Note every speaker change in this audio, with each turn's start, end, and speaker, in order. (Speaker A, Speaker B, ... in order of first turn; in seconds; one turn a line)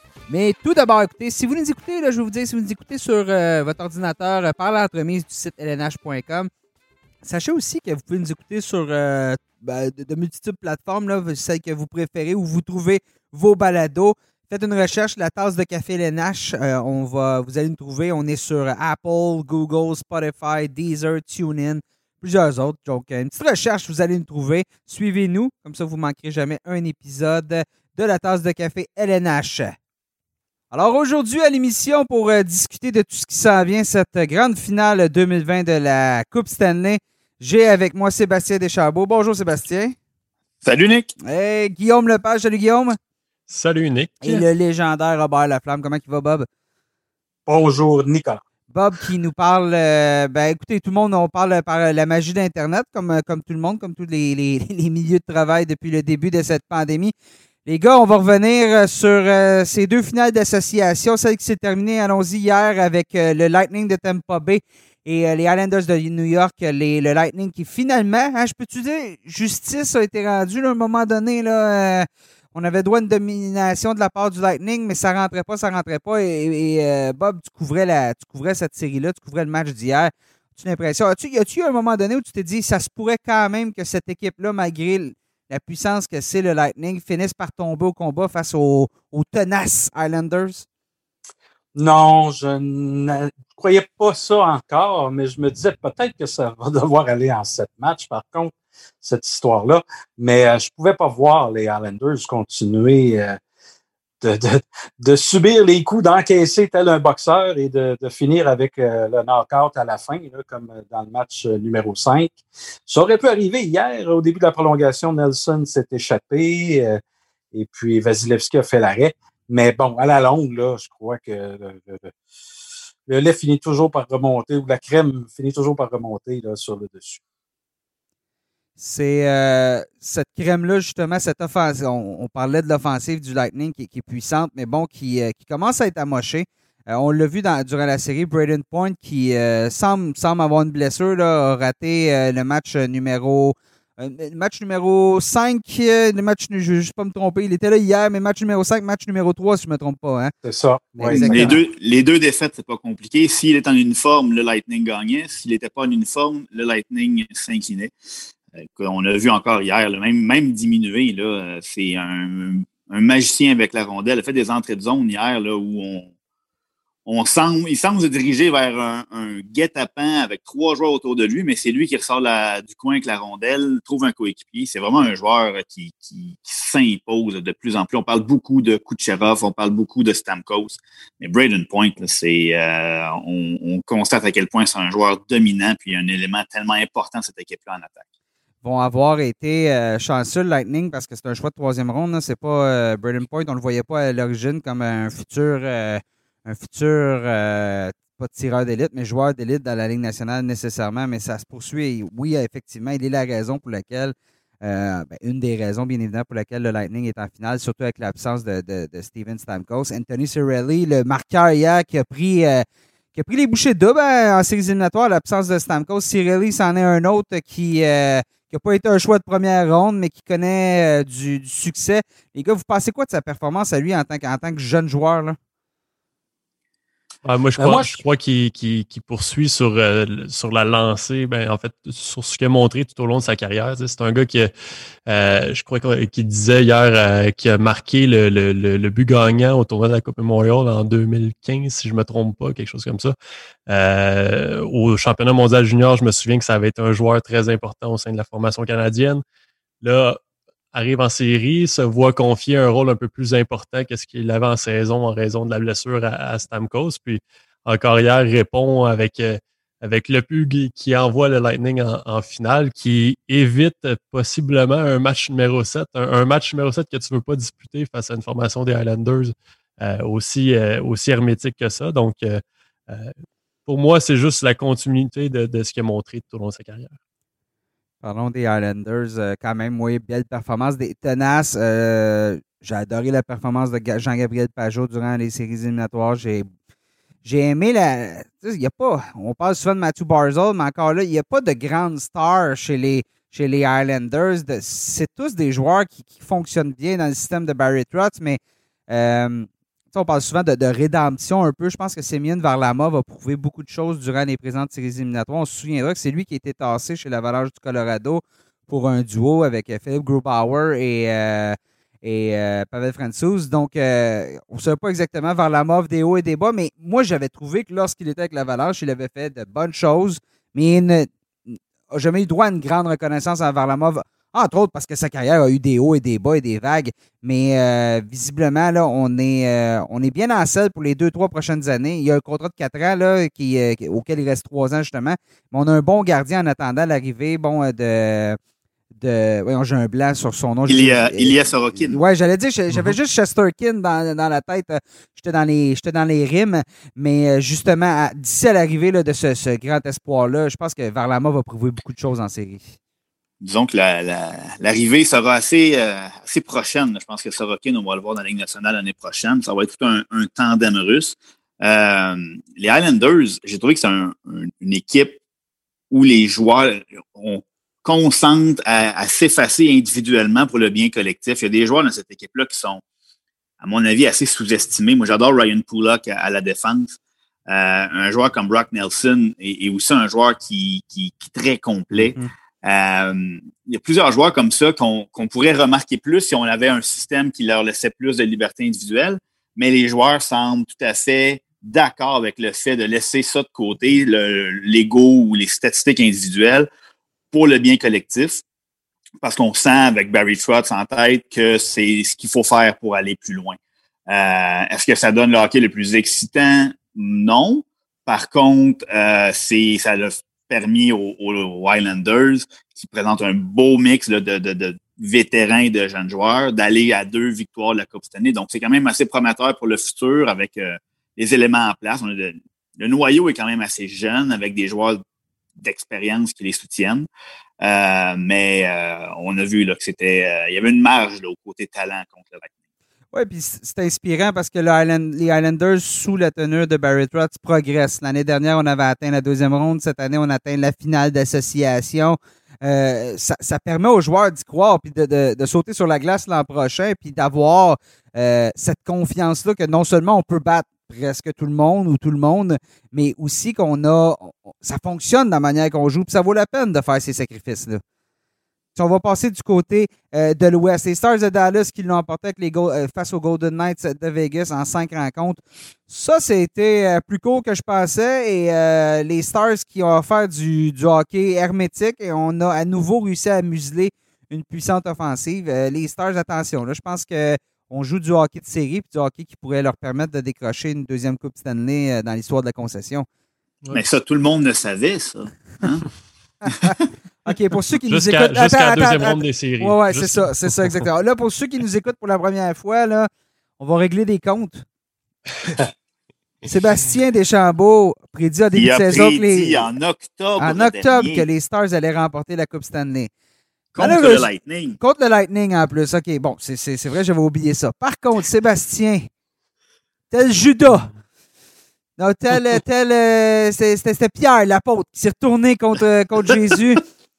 Speaker A: 0.3-6.5
Speaker A: 7.2-29.8
Speaker A: 30.7-40.0
Speaker B: 40.6-41.1
Speaker A: 41.2-43.0
Speaker C: 43.5-44.4
Speaker A: 44.2-46.5
Speaker D: 47.5-48.4
Speaker A: 48.7-57.1
Speaker A: 57.6-90.7
Speaker D: 91.7-103.4
Speaker D: 104.2-117.0
Speaker D: 117.5-122.1
Speaker D: 123.1-127.2
Speaker A: 128.8-150.3
Speaker D: 150.4-151.6
Speaker A: 151.0-151.6
Speaker B: 151.2-157.9
Speaker B: 158.6-166.1
Speaker B: 167.1-188.0
Speaker A: 188.6-225.4
Speaker C: 227.2-234.5
Speaker D: 227.6-228.0
Speaker C: 235.1-243.1
Speaker C: 243.7-249.2
Speaker C: 249.8-250.2
Speaker C: 250.7-273.1
Speaker C: 273.6-276.9
Speaker A: 278.0-286.5
Speaker A: 287.2-338.4
Speaker A: 338.9-352.7
Speaker B: 340.7-342.0
Speaker B: 353.4-365.2
Speaker B: 365.9-372.8
Speaker B: 373.6-377.0
Speaker B: 377.5-396.7
Speaker B: 397.3-398.4
Speaker B: 399.2-425.0
Speaker B: 425.6-427.1
Speaker B: 427.6-432.5
Speaker A: 433.1-457.8
Speaker A: 458.8-483.1
Speaker B: 483.7-485.9
Speaker A: 486.4-486.7
Speaker A: 487.2-494.6
Speaker C: 487.9-490.7
Speaker A: 496.4-499.7
Speaker B: 498.5-501.2
Speaker A: 500.4-503.1
Speaker B: 503.7-504.8
Speaker A: 503.8-509.1
Speaker A: 510.1-510.9
Speaker A: 512.0-516.8